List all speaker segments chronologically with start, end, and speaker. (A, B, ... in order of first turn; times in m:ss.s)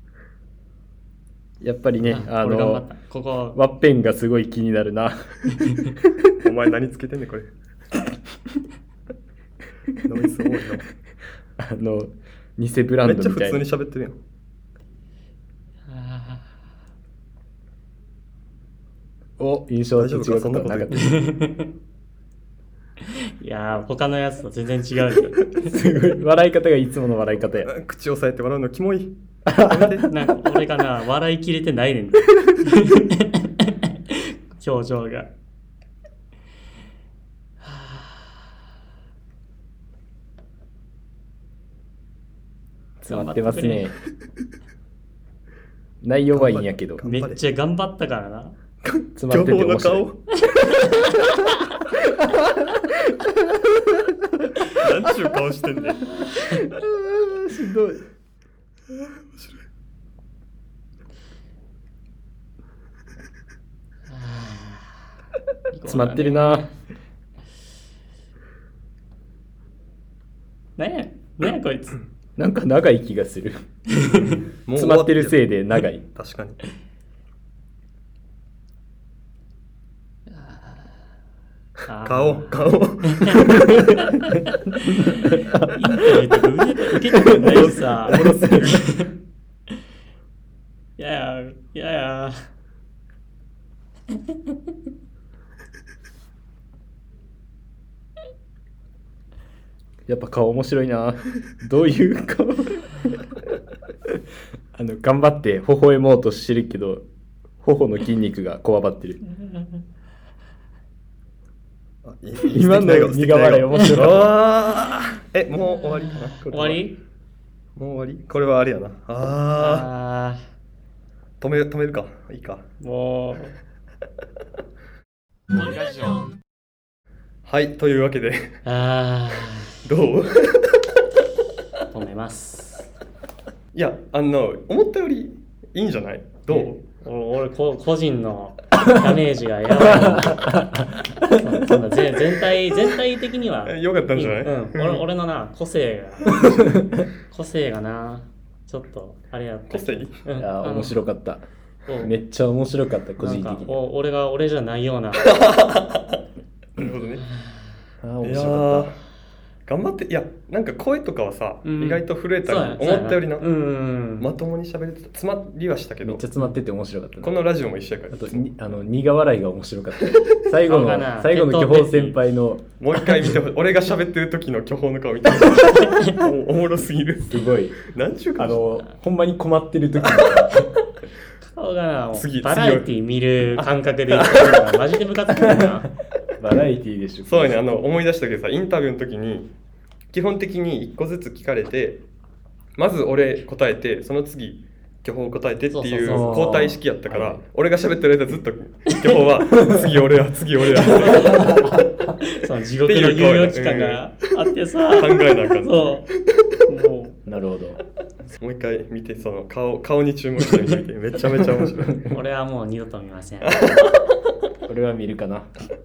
0:01.6-0:02.8 A
0:02.0-0:03.6 B
0:03.5-0:06.3 A
0:06.4-0:07.5 C
0:10.0-0:10.9 C
0:11.6-0:13.6 A
0:13.0-0:14.2 C
0:15.9-0:16.4 B
0:19.4-0:21.2 A
0:19.9-0:21.2 C
0:20.9-0:21.7 B
0:23.4-0:25.8 B
0:25.5-0:27.7 A
0:27.4-0:30.1 C
0:29.4-0:30.1 A
0:30.1-0:35.3 B
0:37.6-0:38.3 B
0:43.0-0:44.0 A
0:43.1-0:43.9 B
0:46.0-0:47.0 A
0:46.3-0:47.4 C
0:47.0-0:48.6 B
0:48.8-0:50.2 C
0:49.2-0:50.2 A
0:50.5-0:51.8 B
0:52.0-0:54.5 A
0:54.8-0:56.2 C
0:56.2-0:58.0 A
0:58.9-0:59.6 C
1:04.1-1:05.0 B
1:05.7-1:06.7 B
1:05.8-1:06.7 A
1:10.8-1:12.0 B
1:12.4-1:13.6 A
1:13.9-1:14.4 B
1:14.1-1:16.0 A
1:14.6-1:16.6 C
1:20.3-1:20.8 B
1:21.9-1:29.1 B
1:22.0-1:23.8 C
1:24.8-1:26.1 A
1:27.2-1:28.8 A
1:27.5-1:29.0 C
1:31.0-1:32.4 B
1:40.1-1:43.2 A
1:44.7-1:47.0 A
1:47.6-1:49.2 A
1:52.0-1:56.8 C
1:52.4-1:54.4 A
1:56.4-1:57.0 B
1:57.8-1:59.9 C
1:59.6-2:00.4 B
2:01.4-2:02.6 C
2:02.8-2:03.5 B
2:05.8-2:06.1 B
2:07.4-2:08.5 C
2:08.6-2:09.7 B
2:09.8-2:10.9 C
2:11.9-2:12.9 B
2:13.7-2:16.8 C
2:16.5-2:20.6 B
2:19.8-2:21.4 A
2:21.3-2:31.0 B
2:23.6-2:25.0 C
2:26.3-2:26.9 A
2:26.3-2:26.6 C
2:29.7-2:30.2 C
2:30.4-2:31.4 A
2:31.8-2:32.1 B
2:32.0-2:33.8 A
2:33.2-2:35.3 B
2:35.2-2:36.2 C
2:36.8-2:37.2 C
2:37.4-2:37.6 B
2:38.0-2:38.9 A
2:38.2-2:39.0 C
2:39.7-2:43.5 C
2:41.6-2:44.3 B
2:44.2-2:46.2 C
2:46.0-2:47.4 A
2:47.2-2:48.6 C
2:48.1-2:52.6 A
2:50.0-2:50.4 C
2:50.6-2:52.2 B
2:52.8-2:58.8 C
2:55.6-2:56.2 B
2:57.3-3:00.6 A
3:00.1-3:00.5 C
3:01.4-3:05.9 B
3:02.1-3:03.0 C
3:03.6-3:04.7 C
3:05.3-3:05.9 A
3:06.4-3:07.8 A
3:07.2-3:09.5 C
3:10.1-3:12.0 C
3:12.8-3:21.6 C
3:15.7-3:16.5 B
3:16.0-3:17.4 A
3:20.8-3:26.1 B
3:21.0-3:21.9 A
3:22.8-3:24.2 C
3:24.9-3:26.1 C
3:26.7-3:27.2 B
3:27.2-3:27.8 A
3:28.4-3:32.0 C
3:32.1-3:33.9 B
3:33.4-3:33.9 C
3:34.7-3:35.5 A